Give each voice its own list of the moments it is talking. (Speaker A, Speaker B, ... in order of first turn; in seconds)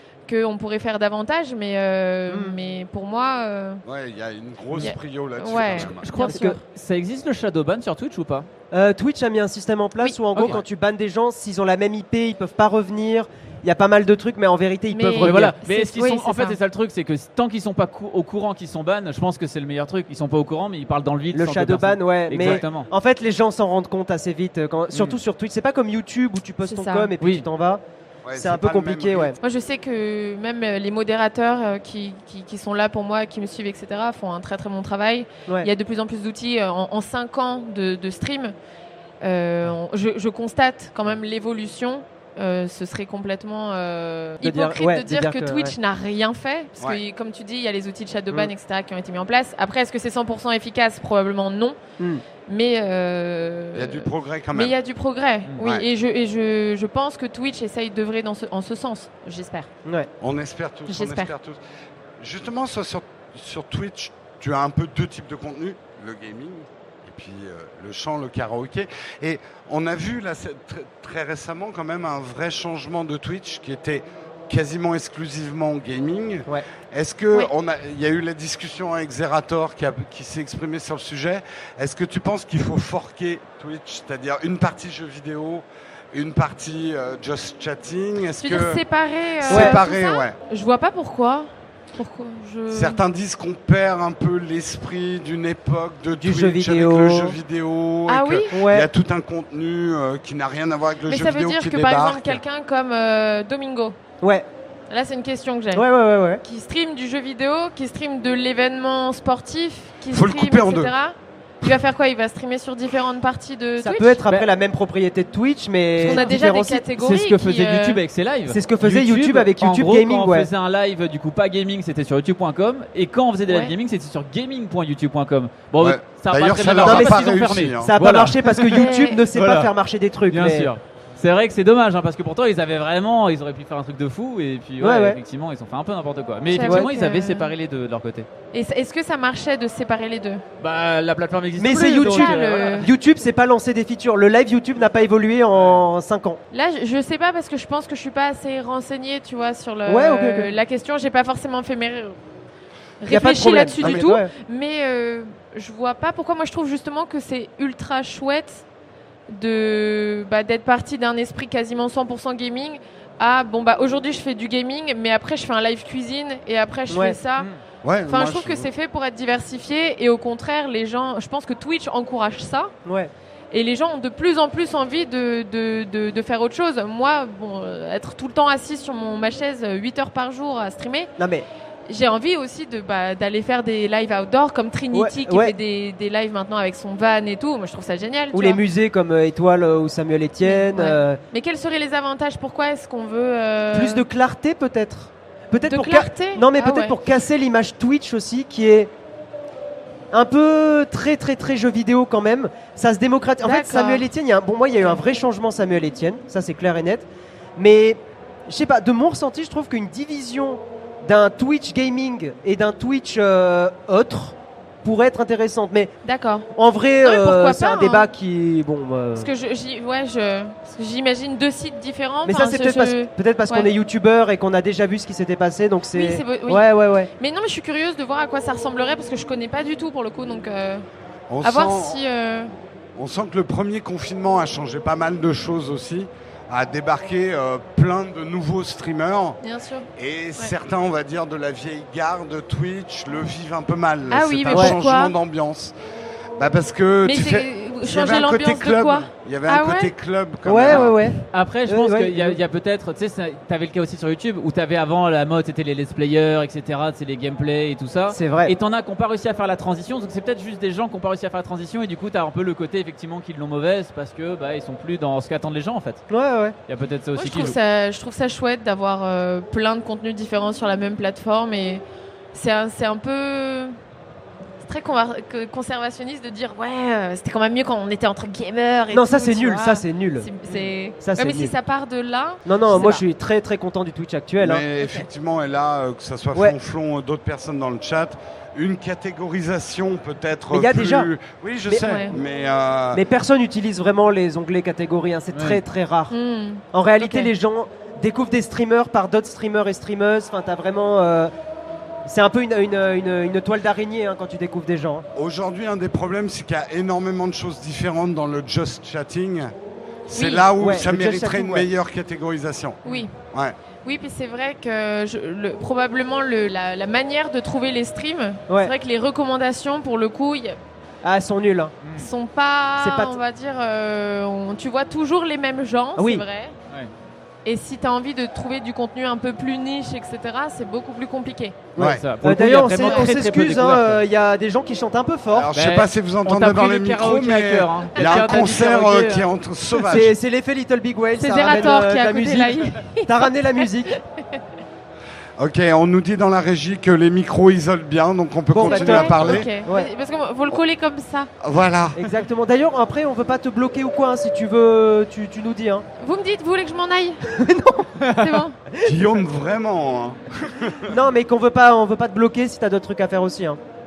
Speaker A: 0.3-3.8, 4.8-6.6, 14.9-16.6, 26.6-27.1, 29.4-38.5, 39.2-51.8, 52.5-59.7, 60.9-61.3, 88.4-93.0, 98.1-98.5, 101.0-104.0, 104.9-105.8, 106.4-114.4, 116.0-118.0, 123.5-123.7, 128.7-129.2, 136.5-137.5, 138.5-140.4, 142.0-142.9, 146.5-152.2, 153.0-158.6, 159.3-167.5, 168.1-172.7, 173.5-181.1, 181.9-188.6, 190.4-194.0, 195.6-196.9, 203.4-204.1, 216.0-216.5, 217.0-218.1, 219.2-223.7, 225.9-226.7, 227.2-230.8, 231.4-232.5, 239.4-240.5, 244.1-245.1, 247.0-249.9, 267.1-273.8, 274.6-283.0, 291.8-292.1, 296.1-297.3, 310.1-310.5, 312.8-313.1, 313.8-320.6, 321.9-326.5, 327.4-331.6, 332.8-333.1, 337.9-338.6, 341.2-344.4, 348.6-351.3, 356.0-357.3, 358.1-358.6
Speaker B: 2.3-2.6, 6.2-6.5, 8.7-15.5, 21.3-27.8, 28.3-29.4, 44.4-45.7, 52.0-52.2, 89.5-89.8, 96.2-97.4, 98.5-98.9, 104.2-104.5, 105.7-106.4, 113.8-116.9, 118.5-120.5, 126.8-130.7, 134.8-135.2, 136.6-136.9, 141.6-146.4, 149.8-150.6, 153.1-154.3, 166.9-167.2, 172.8-173.1, 181.2-181.5, 184.9-185.6, 188.3-191.2, 193.7-198.9, 200.1-207.1, 207.6-215.9, 216.5-219.3, 222.2-227.1, 244.5-244.8, 250.4-252.4, 258.1-258.5, 266.1-266.5, 278.9-280.3, 281.0-281.5, 282.4-284.6, 290.5-291.1, 292.9-296.1, 296.7-301.3, 302.0-305.0, 310.6-311.7, 321.0-321.7, 322.8-323.2, 326.0-326.2, 331.8-335.5, 339.9-343.9, 348.5-349.9, 351.9-355.9, 357.2-358.0, 358.7-359.1, 360.9-363.6
Speaker C: 3.9-6.0, 22.4-22.6, 28.2-29.4, 53.7-54.8, 60.2-61.6, 62.2-88.8, 89.4-90.4, 92.7-102.4, 110.1-110.9, 125.8-127.9, 167.8-168.7, 231.3-232.0, 232.9-239.4, 239.9-245.7, 246.4-251.0, 284.4-293.0, 305.1-309.5, 310.1-312.8, 331.8-332.0, 335.3-340.1, 345.4-349.5, 351.4-352.1, 358.8-360.9
Speaker D: 5.6-8.5, 15.2-22.9, 24.9-25.2, 116.0-116.3, 117.0-129.7, 130.3-138.3, 140.6-142.9, 145.5-145.8, 250.6-266.0, 266.7-267.5, 295.3-295.6, 321.8-322.1, 331.8-334.0, 335.5-339.3, 358.0-358.3